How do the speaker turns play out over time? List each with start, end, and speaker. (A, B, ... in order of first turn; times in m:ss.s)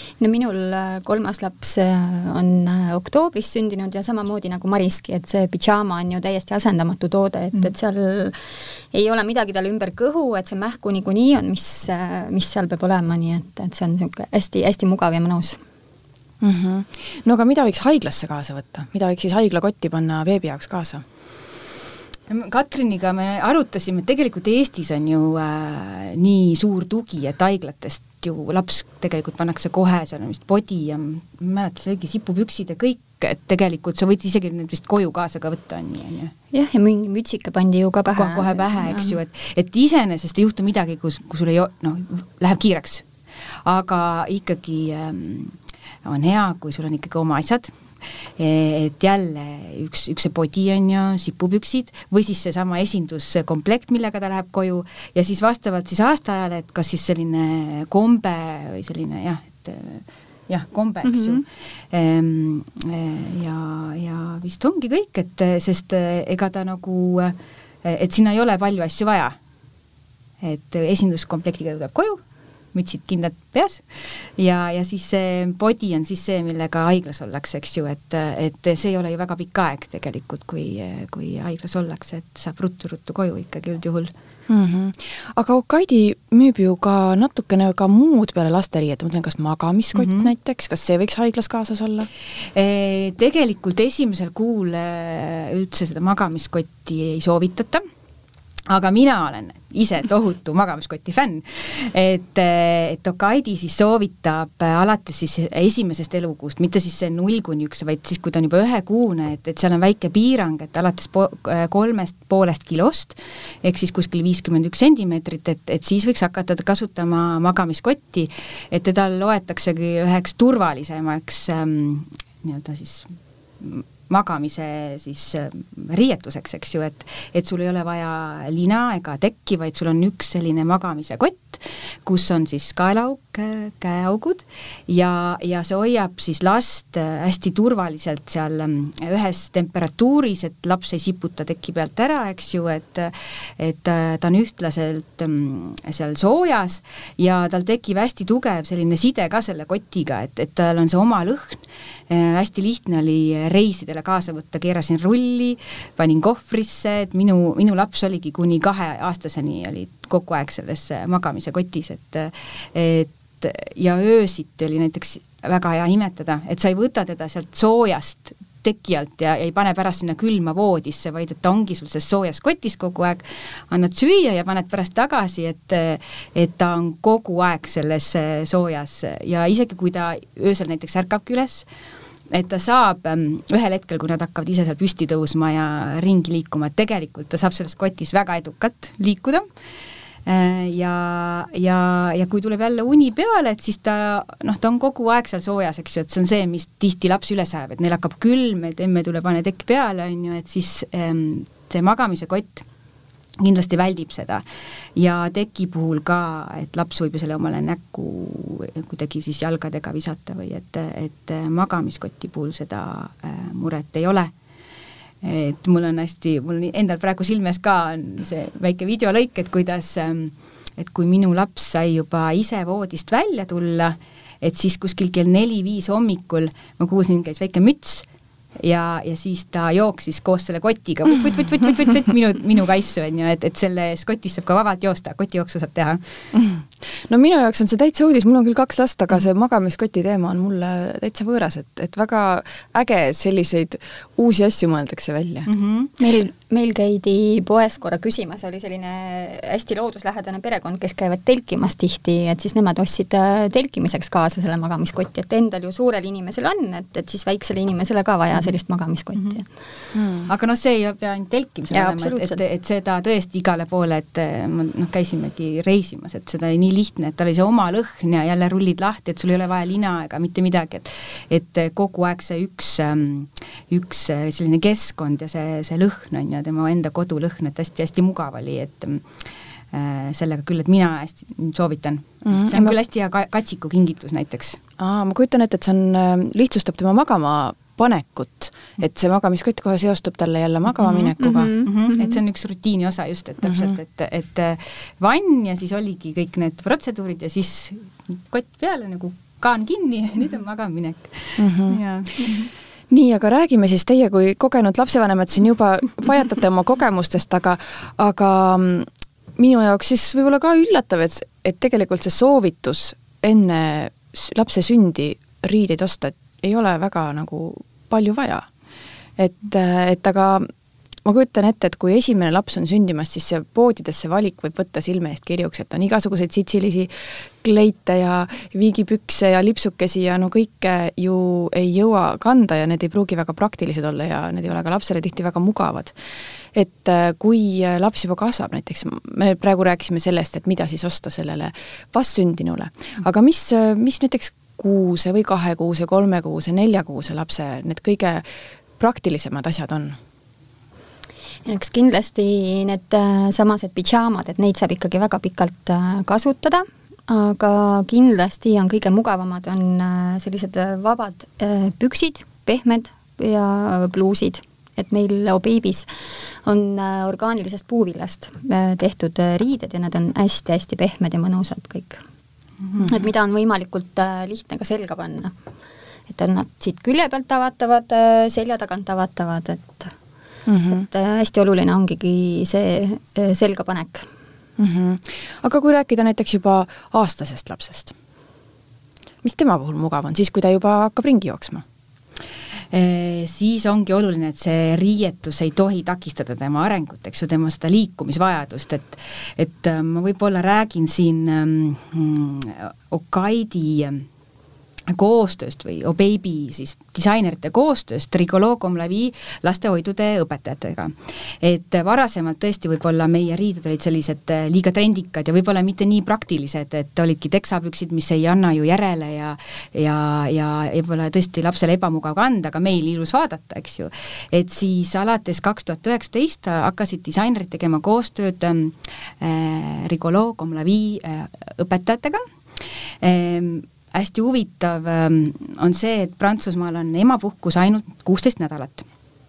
0:00.2-0:08.4 A
0:08.9-0:15.6 A
0:16.4-0:21.0 B
0:22.3-0:36.3 C
0:36.5-0:39.1 A
0:38.1-0:43.0 C
0:43.6-0:47.7 C
0:48.2-1:09.4 C
1:01.0-1:01.4 A
1:10.4-1:12.2 C
1:12.7-1:24.1 C
1:24.5-1:32.1 B
1:30.0-1:30.3 C
1:32.5-1:37.8 C
1:38.7-3:01.7 C
3:02.3-3:09.5 C
3:10.2-3:22.6 C
3:23.4-3:24.4 C
3:25.0-3:34.3 C
3:35.2-3:48.1 C
3:48.6-3:56.0 C
3:56.3-4:05.5 B
4:05.5-4:05.9 C
4:06.0-4:19.4 A
4:19.9-4:20.3 B
4:20.2-4:39.0 C
4:21.7-4:22.4 A
4:39.7-4:44.6 C
4:42.2-4:42.7 B
4:44.8-4:51.5 B
4:51.2-4:52.1 A
4:51.6-5:02.5 C
5:01.4-5:01.8 B
5:02.9-5:18.5 B
5:19.2-5:20.5 B
5:21.0-5:35.9 B
5:36.5-5:48.2 B
5:48.8-5:50.0 B
5:51.4-6:12.0 A
6:12.8-6:15.3 A
6:16.1-6:19.9 A
6:20.4-6:20.8 B
6:20.7-6:24.1 A
6:24.6-6:27.9 B
6:29.2-6:31.6 B
6:32.7-6:44.0 C
6:44.9-7:12.2 C
7:13.0-7:18.9 C